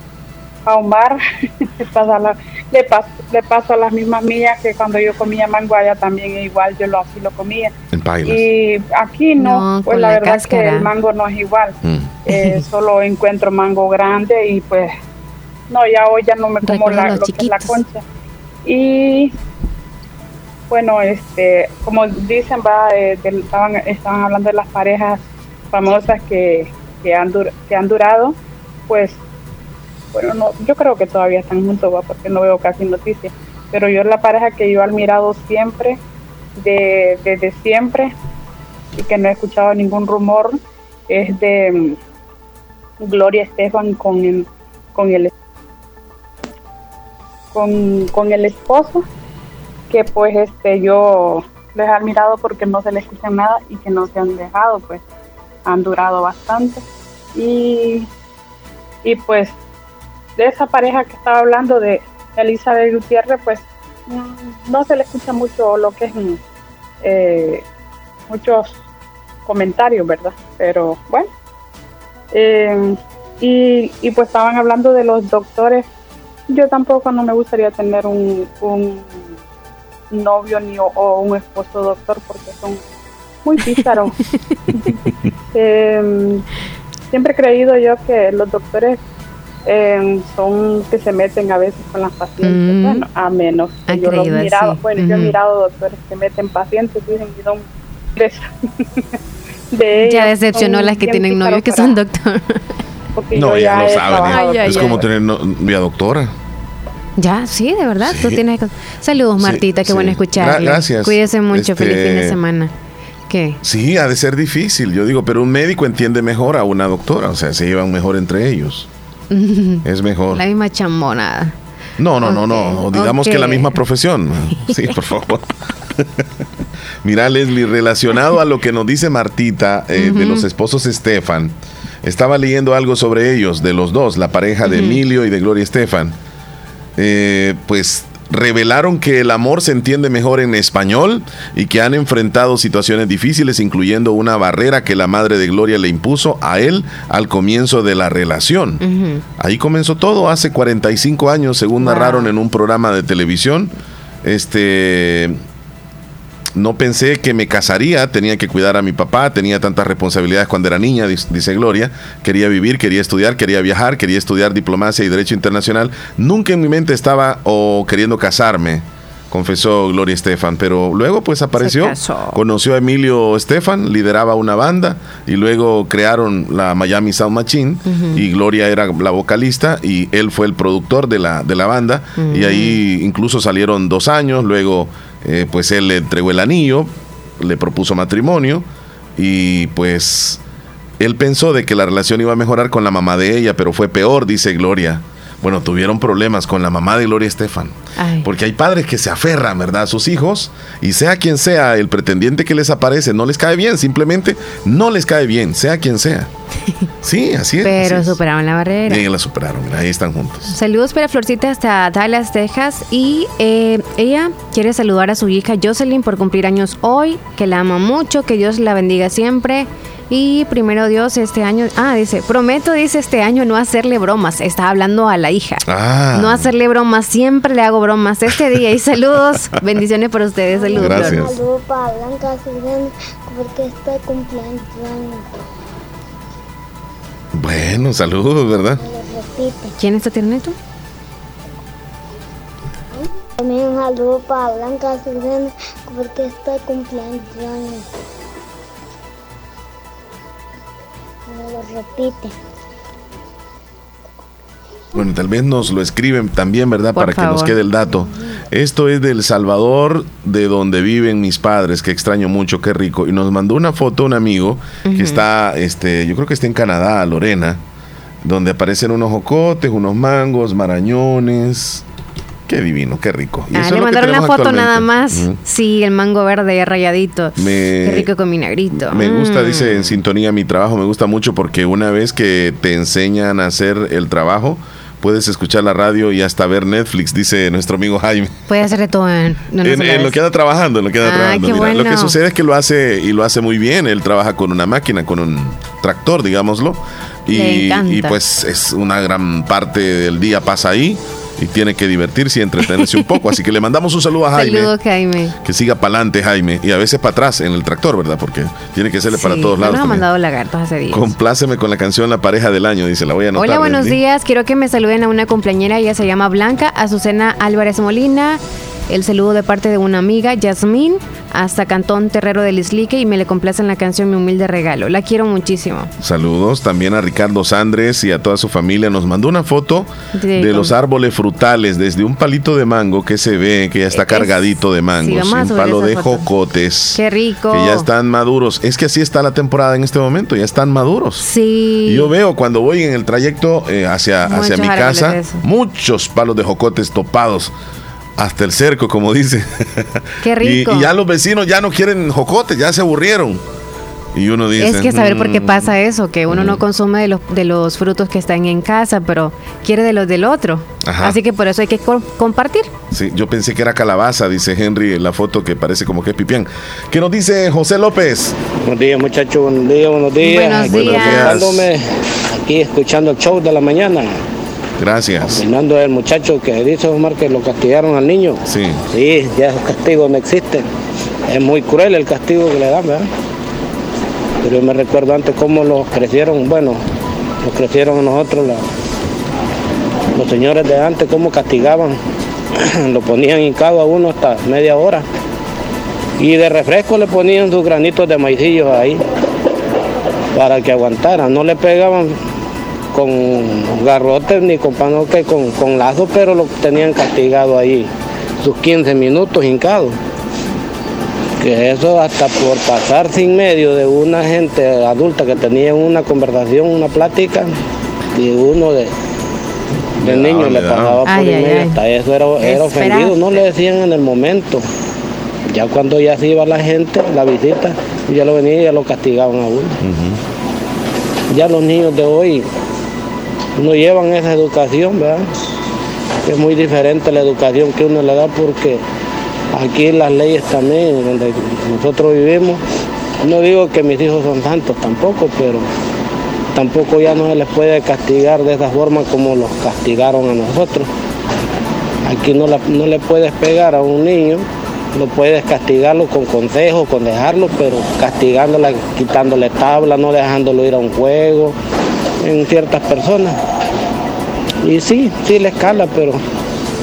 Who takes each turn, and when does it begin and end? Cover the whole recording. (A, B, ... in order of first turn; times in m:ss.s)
0:00.7-0:07.7 A
0:07.9-0:08.5 B
0:08.2-0:11.8 A
0:09.4-0:10.9 C
0:11.8-0:12.2 B
0:12.3-0:14.9 A
0:12.3-0:12.6 C
0:15.7-0:18.0 A
0:16.6-0:17.8 C
0:18.6-0:19.3 A
0:20.7-0:25.2 A
0:25.7-0:28.4 A
0:28.9-0:29.2 A
0:30.1-0:36.0 A
0:36.6-0:38.1 A
0:39.0-0:42.0 A
0:43.0-0:45.3 A
0:47.5-0:49.0 A
0:49.9-0:55.0 A
0:55.7-0:56.8 A
0:57.4-0:58.1 A
0:59.0-0:59.6 A
1:00.4-1:06.4 A
1:07.0-1:07.6 A
1:08.3-1:08.7 A
1:09.5-1:11.3 A
1:12.3-1:15.9 A
1:16.5-1:19.4 A
1:20.1-1:22.8 A
1:23.4-1:24.2 A
1:25.5-1:26.4 A
1:27.1-1:29.0 A
1:29.7-1:39.0 A
1:32.4-1:33.1 C
1:33.9-1:35.4 C
1:39.7-1:42.0 A
1:40.0-1:42.6 C
1:43.2-1:45.0 A
1:43.3-1:46.3 B
1:43.8-1:45.0 C
1:47.2-1:52.7 C
1:48.0-1:48.4 B
1:49.4-1:52.4 B
1:53.3-1:53.6 C
1:53.6-1:58.9 B
1:59.3-2:01.5 C
1:59.8-2:00.4 B
2:02.0-2:06.2 B
2:02.2-2:03.8 C
2:07.0-2:16.2 B
2:10.0-2:10.5 C
2:14.6-2:15.0 C
2:17.0-2:28.8 B
2:28.8-2:29.2 C
2:29.4-2:35.4 B
2:31.8-2:32.3 C
2:36.6-3:08.6 B
2:51.6-2:52.4 C
2:57.9-2:58.2 C
3:02.2-3:02.8 C
3:09.2-3:10.4 B
3:11.0-3:26.3 B
3:18.0-3:18.3 C
3:27.0-3:28.2 B
3:27.6-3:29.0 C
3:28.9-3:30.5 B
3:30.5-3:51.3 C
3:45.6-3:46.5 B
3:50.5-3:55.3 D
3:50.7-3:51.4 B
3:57.3-3:58.8 B
3:58.8-3:59.7 D
3:59.8-4:00.6 C
4:03.4-4:07.8 D
4:11.3-4:12.3 D
4:15.0-4:27.6 B
4:17.0-4:17.6 C
4:24.8-4:25.2 C
4:28.2-4:31.8 B
4:32.5-4:35.4 B
4:33.5-4:40.0 C
4:37.4-4:38.1 B
4:38.7-4:48.5 B
4:48.5-4:50.2 C
4:49.6-5:04.7 B
4:51.0-4:52.2 C
4:57.3-4:58.2 C
5:02.8-5:03.1 C
5:04.4-5:05.4 C
5:05.4-5:10.0 B
5:09.1-5:11.1 C
5:10.9-5:14.0 B
5:13.4-5:25.9 C
5:26.0-5:41.3 B
5:30.1-5:30.7 C
5:33.9-5:34.4 C
5:35.0-5:36.2 C
5:37.0-5:37.9 C
5:41.2-5:42.1 C
5:41.8-5:47.5 B
5:44.2-5:45.4 C
5:48.2-5:53.4 B
5:50.2-5:50.9 C
5:54.1-5:55.7 B
5:54.6-6:02.7 C
5:56.3-5:56.6 B
6:00.8-6:01.2 B
6:02.9-6:08.4 B
6:08.7-6:14.2 E
6:10.2-6:11.4 C
6:10.6-6:11.7 B
6:14.8-6:15.4 B
6:15.3-6:20.6 E
6:18.4-6:18.8 B
6:21.3-6:23.1 E
6:24.4-6:26.8 E
6:27.4-6:28.6 E
6:30.1-6:32.0 E
6:32.6-6:35.0 E
6:36.2-6:39.0 E
6:40.4-6:42.2 E
6:42.9-6:47.9 E
6:48.4-6:50.0 E
6:51.4-6:57.5 E
6:58.1-6:58.9 E
7:00.0-7:01.0 B
7:00.0-7:04.6 E
7:01.1-7:01.8 C
7:02.4-7:03.2 C
7:05.5-7:09.8 E
7:09.8-7:10.2 B
7:11.3-7:12.4 E
7:13.6-7:15.3 E
7:16.3-7:18.8 E
7:19.5-7:22.6 E
7:23.2-7:25.7 E
7:26.5-7:30.9 E
7:32.0-7:41.6 E
7:42.2-7:43.4 E
7:44.6-7:46.2 E